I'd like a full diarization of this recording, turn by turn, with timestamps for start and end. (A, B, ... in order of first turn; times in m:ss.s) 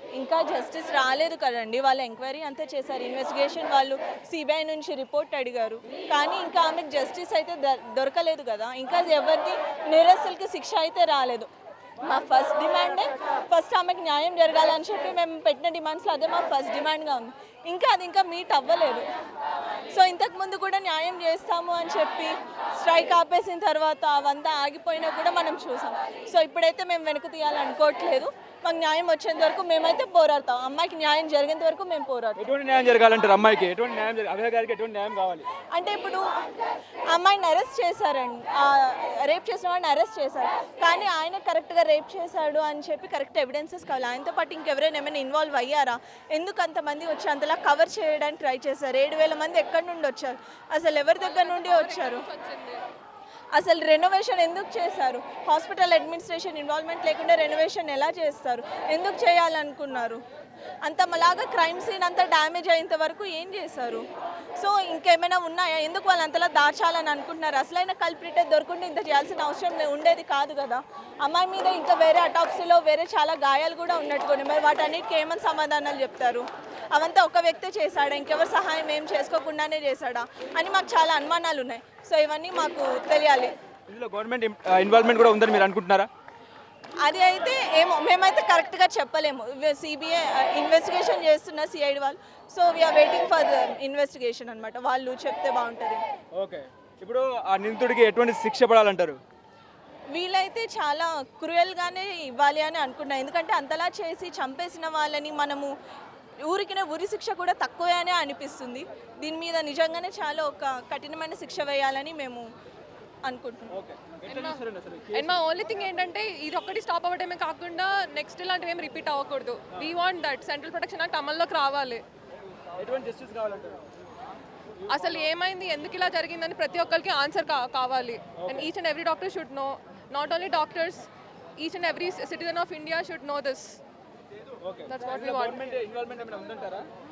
0:00.2-0:11.5 A
0:12.0-0:19.0 A
0:19.9-0:32.4 A
0:32.4-0:35.5 B
0:35.7-0:36.2 A
0:37.1-0:52.3 A
0:51.2-0:52.8 C
0:53.5-1:00.2 A
1:00.8-1:04.0 A
1:04.6-1:23.5 A
1:23.9-1:26.1 B
1:27.0-1:36.0 A
1:36.4-1:39.2 B
1:40.1-1:45.7 A
1:46.4-1:52.4 A
1:53.2-1:53.8 A
1:53.7-1:55.4 B
1:54.3-1:54.6 C
1:55.1-2:02.0 C
2:02.8-2:03.8 B
2:04.9-2:13.8 C
2:08.4-2:08.7 B
2:14.6-2:16.9 B
2:14.9-2:15.6 C